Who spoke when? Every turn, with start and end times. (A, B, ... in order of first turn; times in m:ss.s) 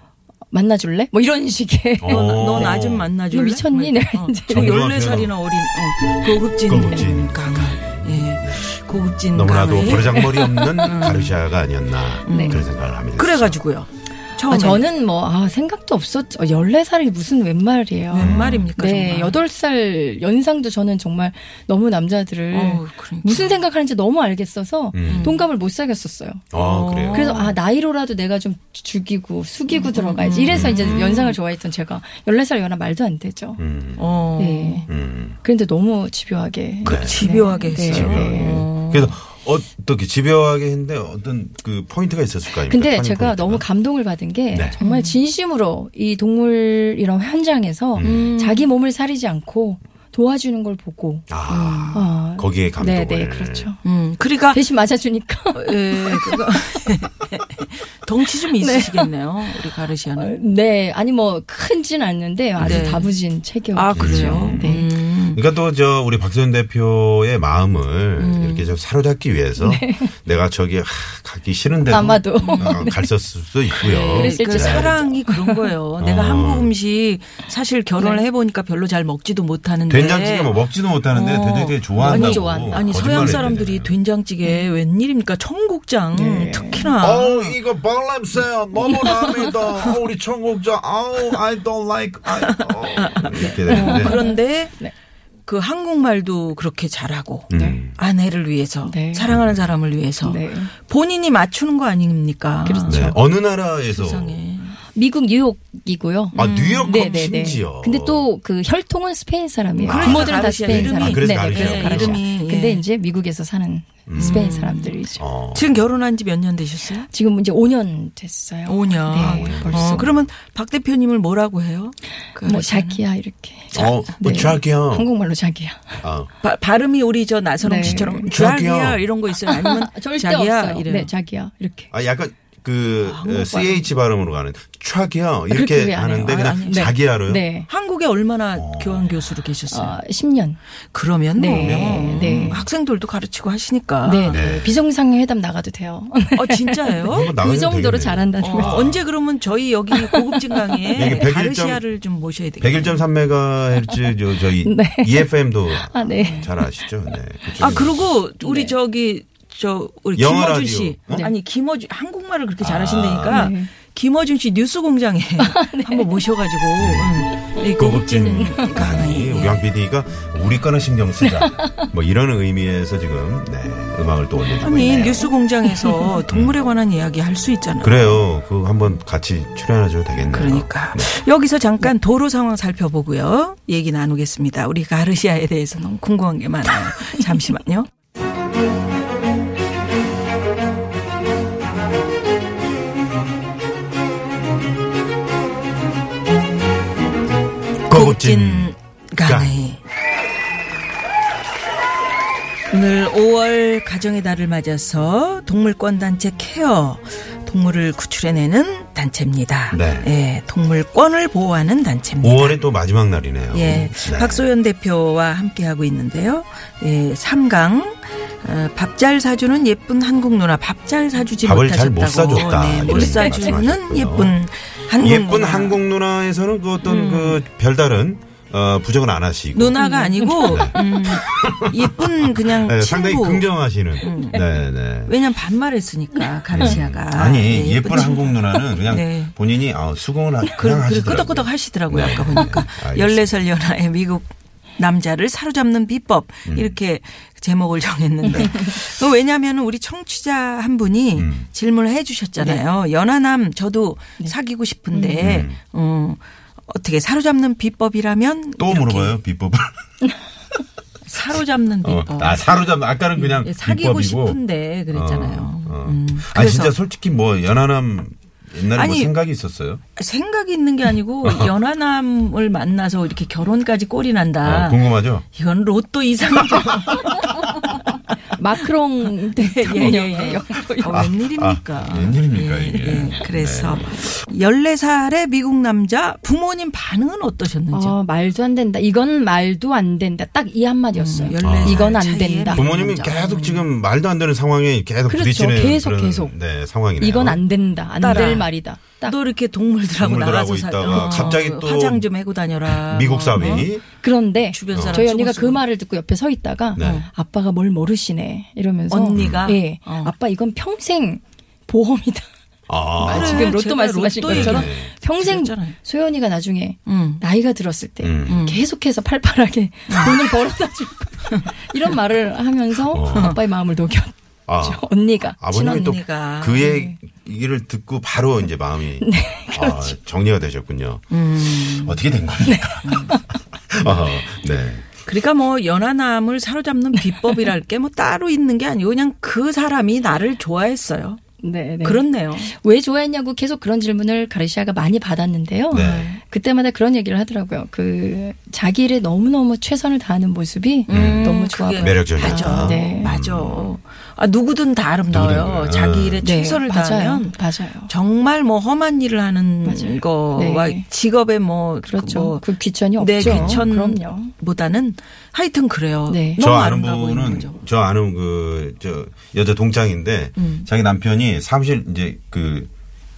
0:00.5-0:04.9 A
0:02.0-0:03.1 B
0:02.0-0:11.4 C
0:04.5-0:05.4 B
0:06.3-0:08.7 B
0:09.3-0:13.6 B
0:09.9-0:11.1 A
0:12.2-0:12.6 C
0:12.3-0:12.6 A
0:13.2-0:14.9 C
0:14.5-0:26.5 A
0:18.1-0:19.4 C
0:18.2-0:18.7 B
0:22.5-0:23.6 C
0:24.9-0:25.4 B
0:25.0-0:25.4 C
0:26.5-0:27.4 B
0:26.5-0:27.6 C
0:27.1-0:33.6 A
0:29.7-0:31.4 C
0:30.5-0:31.2 B
0:33.6-0:34.1 B
0:34.0-0:34.9 C
0:34.4-0:38.6 A
0:34.9-0:35.4 B
0:36.8-0:39.2 C
0:36.8-0:43.6 B
0:42.5-0:51.3 A
0:44.5-0:44.8 B
0:44.8-0:45.2 C
0:48.0-0:48.3 B
0:48.0-0:48.7 C
0:51.3-0:53.7 B
0:51.5-0:52.0 C
0:51.9-0:53.8 A
0:53.8-0:54.7 C
0:54.5-0:56.6 A
0:55.5-1:00.4 C
0:58.6-1:04.9 A
1:02.6-1:03.0 B
1:02.6-1:03.1 C
1:03.7-1:05.4 C
1:04.0-1:15.0 B
1:08.2-1:08.8 C
1:09.6-1:10.1 A
1:11.9-1:13.1 A
1:12.4-1:12.9 C
1:13.8-1:27.6 C
1:13.8-1:15.7 A
1:16.0-1:16.7 B
1:18.0-1:18.2 A
1:19.9-1:23.9 B
1:22.0-1:23.5 A
1:26.1-1:26.9 A
1:27.0-1:34.2 B
1:28.8-1:29.9 C
1:29.1-1:29.5 A
1:32.5-1:34.8 C
1:33.4-1:34.9 A
1:35.5-1:43.1 C
1:37.5-1:38.0 B
1:37.5-1:37.8 A
1:38.9-1:39.3 A
1:39.3-1:39.6 B
1:40.2-1:40.7 A
1:42.6-1:43.2 A
1:42.9-1:44.4 B
1:43.9-1:44.8 C
1:44.9-1:55.2 A
1:46.3-1:47.6 C
1:46.4-1:48.3 B
1:49.8-1:52.2 B
1:49.8-1:52.9 C
1:54.1-1:54.5 B
1:54.2-1:57.1 C
1:55.2-1:55.8 B
1:57.1-2:00.1 A
1:58.7-2:03.0 C
1:59.1-2:00.3 B
2:02.4-2:06.0 A
2:03.7-2:05.1 B
2:06.0-2:06.3 B
2:06.4-2:11.1 C
2:07.6-2:08.3 A
2:07.8-2:09.0 B
2:09.4-2:11.9 A
2:11.9-2:17.5 B
2:13.0-2:14.0 C
2:15.5-2:17.7 A
2:16.3-2:17.0 C
2:17.7-2:20.0 C
2:18.6-2:19.4 B
2:19.7-2:20.6 A
2:20.9-2:24.4 C
2:21.4-2:22.6 A
2:21.5-2:22.5 B
2:24.0-2:28.9 A
2:24.3-2:24.8 B
2:26.4-2:27.3 C
2:27.1-2:29.1 B
2:28.4-2:33.0 C
2:29.9-2:31.2 A
2:31.0-2:31.8 B
2:32.6-2:38.1 B
2:34.6-2:37.2 A
2:37.6-2:49.7 C
2:38.4-2:38.8 A
2:40.2-2:41.3 B
2:42.6-2:43.5 B
2:43.3-2:43.7 A
2:45.4-2:46.3 A
2:46.8-2:55.3 B
2:47.5-2:48.9 A
2:51.2-2:51.9 A
2:54.6-2:56.2 A
2:54.6-2:58.2 C
2:56.3-2:56.6 B
2:57.8-3:01.2 B
3:00.3-3:07.9 C
3:17.9-3:19.6 B
3:17.9-3:19.8 C
3:22.7-3:32.6 C
3:29.7-3:30.1 B
3:32.2-3:34.5 B
3:33.5-3:45.8 C
3:41.4-3:44.4 B
3:42.9-3:43.6 A
3:45.0-3:49.8 B
3:46.8-3:47.4 C
3:49.5-3:54.5 C
3:49.8-3:50.9 A
3:50.4-3:55.2 B
3:55.0-3:59.4 C
3:56.5-4:03.4 B
4:00.6-4:19.2 C
4:06.5-4:06.8 B
4:08.2-4:08.6 B
4:08.2-4:08.7 A
4:11.2-4:11.5 B
4:14.9-4:15.3 A
4:15.2-4:15.6 B
4:18.6-4:19.8 B
4:21.1-4:26.8 C
4:21.8-4:29.8 B
4:28.7-4:29.1 C
4:30.0-4:37.9 C
4:31.2-4:31.5 B
4:34.4-4:35.3 B
4:36.5-4:37.0 B
4:38.3-4:41.1 A
4:39.1-4:48.0 C
4:40.9-4:44.1 B
4:47.7-4:52.6 A
4:50.9-4:53.7 C
4:51.4-4:52.0 B
4:52.5-4:57.4 B
4:55.1-4:56.4 A
4:57.0-4:59.2 A
4:58.0-4:58.4 B
4:58.0-4:58.5 C
4:59.0-5:03.7 C
4:59.9-5:02.1 B
5:01.0-5:01.4 A
5:02.7-5:03.8 B
5:03.4-5:12.3 A
5:04.5-5:05.6 C
5:04.7-5:05.0 B
5:06.8-5:07.1 B
5:06.8-5:07.1 C
5:08.9-5:10.1 C
5:09.2-5:09.5 B
5:12.7-5:13.6 B
5:13.0-5:25.9 A
5:13.1-5:15.8 C
5:14.3-5:14.9 B
5:16.9-5:17.2 C
5:18.0-5:18.4 B
5:18.3-5:18.6 C
5:19.9-5:20.2 C
5:22.9-5:23.4 B
5:23.1-5:23.4 C
5:24.5-5:32.9 B
5:25.5-5:26.7 C
5:26.6-5:27.0 A
5:29.0-5:30.0 A
5:31.1-5:32.0 C
5:32.4-5:33.4 A
5:32.8-5:33.2 C
5:33.7-5:34.9 B
5:33.8-5:34.1 C
5:35.0-5:41.2 C
5:37.0-5:37.5 A
5:41.4-5:53.1 A
5:41.8-5:42.5 C
5:45.7-5:46.1 B
5:45.7-5:46.2 C
5:50.9-6:07.6 C
5:50.9-5:53.7 B
5:55.1-5:56.2 B
5:56.2-5:57.9 A
5:59.7-6:00.9 A
6:01.8-6:04.3 A
6:03.2-6:03.6 B
6:06.1-6:06.4 A
6:06.4-6:12.7 B
6:10.4-6:10.7 C